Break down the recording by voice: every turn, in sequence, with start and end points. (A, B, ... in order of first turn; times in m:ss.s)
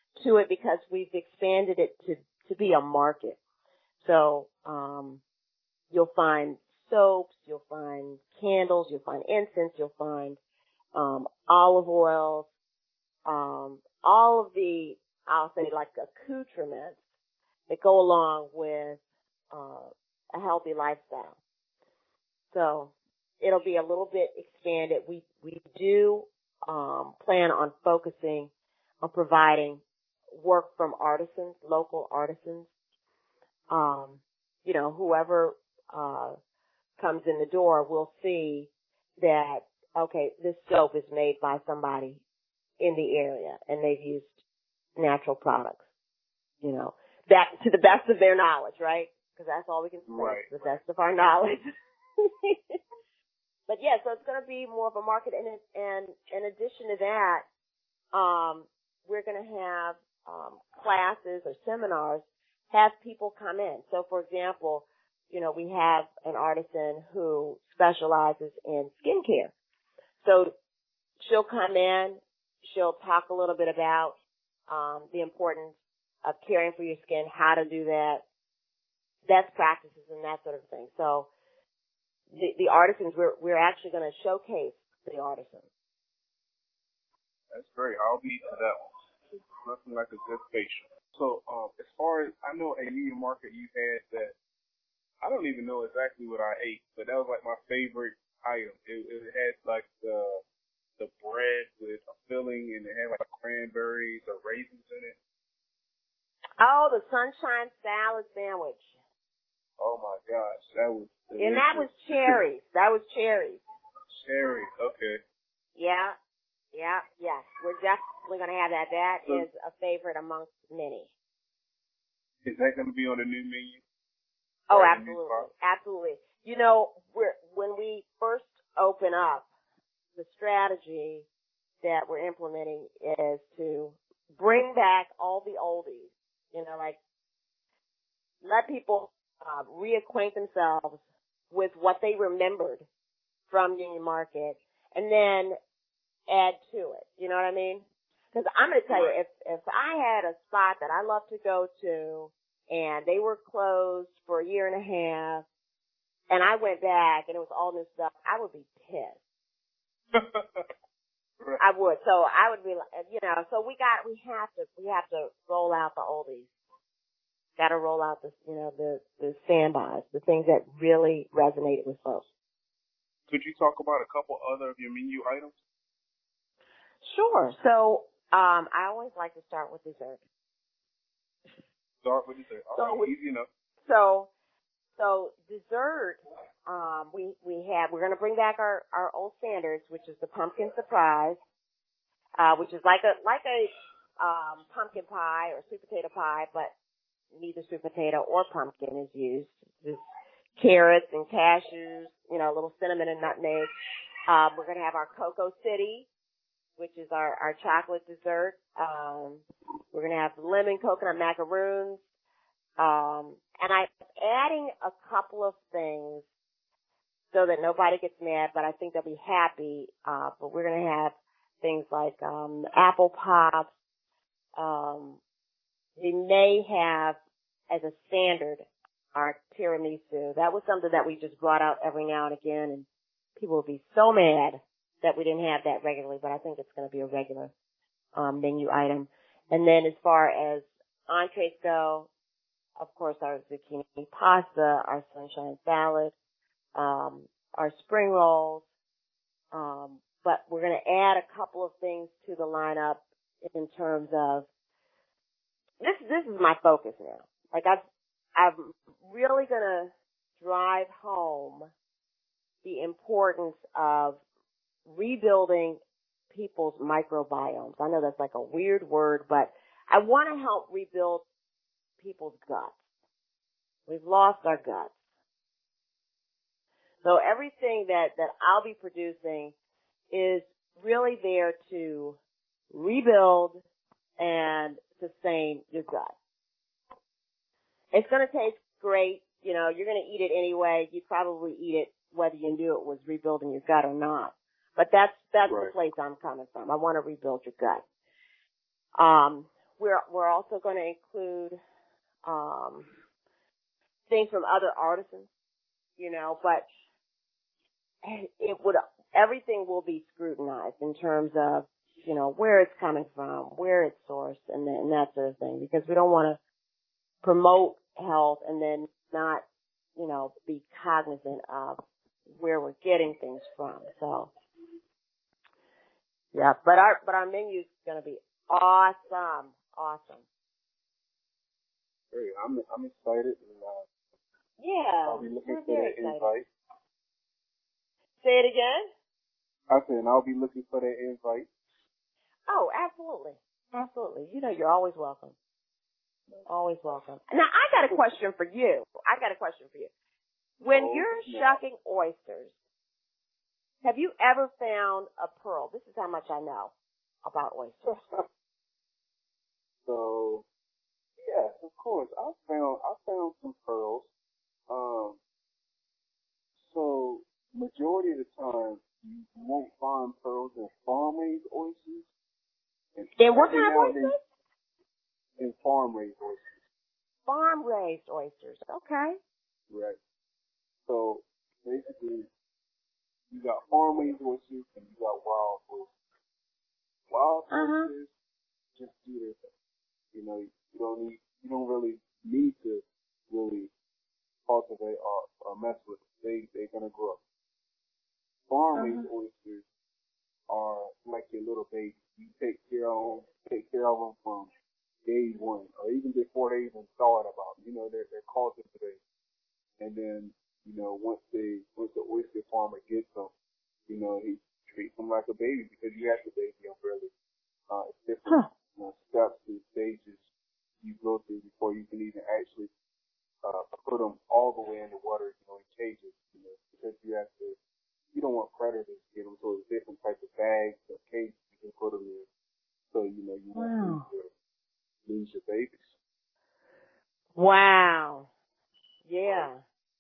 0:00.2-0:03.4 A
0:04.0-0:05.2 A
0:05.9-0:10.4 A
0:11.0-0:12.5 A
0:13.3-0:17.0 A
0:17.7-0:19.0 A
0:19.5-0:21.4 A
0:22.5-0:28.5 A
0:29.0-0:32.7 A
0:33.7-0:36.4 A
0:37.0-0:42.2 A
0:42.8-0:44.3 A
0:45.0-0:45.8 A
0:46.6-0:51.6 A
0:50.1-0:50.5 B
0:52.2-0:52.8 A
0:53.7-0:57.5 A
0:58.1-1:09.5 A
1:10.2-1:10.5 A
1:11.2-1:14.2 A
1:14.7-1:18.2 A
1:19.3-1:21.3 A
1:22.3-1:25.6 A
1:27.5-1:34.4 B
1:35.2-1:40.4 B
1:41.0-1:45.2 B
1:46.6-1:48.9 A
1:49.8-1:52.4 B
1:51.4-1:53.6 A
1:54.1-1:55.2 B
1:55.8-1:56.2 A
1:56.7-2:01.1 A
2:02.4-2:03.8 B
2:04.7-2:09.5 A
2:04.7-2:05.5 B
2:10.2-2:11.3 A
2:11.8-2:17.0 A
2:18.4-2:22.9 A
2:23.5-2:25.6 A
2:26.3-2:35.5 A
2:28.9-2:29.1 B
2:36.3-2:39.2 A
2:40.1-2:40.7 B
2:41.6-2:46.5 A
2:47.6-2:52.2 A
2:53.3-2:55.6 B
2:57.0-3:00.2 A
3:02.0-3:03.5 B
3:02.7-3:03.1 A
3:03.8-3:04.3 A
3:05.0-3:11.4 A
3:12.4-3:16.7 A
3:17.3-3:20.0 A
3:20.6-3:23.7 A
3:24.3-3:26.1 A
3:26.8-3:32.0 A
3:32.8-3:36.2 A
3:37.3-3:43.7 A
3:44.6-3:45.2 A
3:46.0-3:47.2 A
3:47.7-3:57.5 A
3:58.2-4:02.1 A
4:02.8-4:06.1 A
4:06.8-4:08.6 A
4:09.5-4:14.5 A
4:15.8-4:17.8 A
4:18.4-4:21.7 A
4:22.6-4:24.2 A
4:24.9-4:31.2 A
4:32.0-4:32.8 A
4:33.9-4:34.9 A
4:37.0-4:39.5 A
4:40.1-4:42.2 A
4:42.7-4:43.6 A
4:44.2-4:46.1 A
4:47.9-4:57.8 A
4:55.5-4:55.7 B
4:59.0-5:01.6 A
5:02.2-5:02.9 A
5:04.1-5:05.3 A
5:06.0-5:06.7 A
5:08.0-5:16.4 A
5:17.2-5:19.4 A
5:20.0-5:24.3 A
5:26.3-5:30.2 A
5:32.1-5:33.9 B
5:34.6-5:36.3 A
5:35.0-5:36.5 B
5:38.2-5:38.9 A
5:39.7-5:41.5 B
5:42.5-5:45.4 A
5:46.5-5:49.9 A
5:50.6-5:52.5 A
5:50.7-5:51.6 B
5:53.8-5:56.7 A
5:57.2-5:58.0 A
5:59.9-6:00.4 B
6:01.2-6:04.1 B
6:04.7-6:05.2 B
6:06.6-6:12.1 B
6:13.0-6:14.2 B
6:13.2-6:14.2 A
6:15.4-6:16.5 B
6:17.3-6:19.2 A
6:19.7-6:20.0 B
6:20.8-6:22.3 B
6:23.3-6:25.9 B
6:27.1-6:28.1 B
6:27.5-6:27.9 A
6:28.8-6:29.5 B
6:30.1-6:33.7 B
6:34.5-6:37.2 B
6:38.5-6:39.6 B
6:38.8-6:39.1 A
6:40.5-6:44.5 B
6:45.0-6:49.0 B
6:49.8-6:53.3 B
6:53.9-6:57.1 B
6:57.7-7:00.3 B
7:00.8-7:02.7 B
7:03.4-7:07.6 B
7:08.1-7:12.3 B
7:12.9-7:14.3 B
7:13.6-7:14.0 A
7:15.0-7:15.9 B
7:17.4-7:18.3 A
7:19.0-7:19.6 A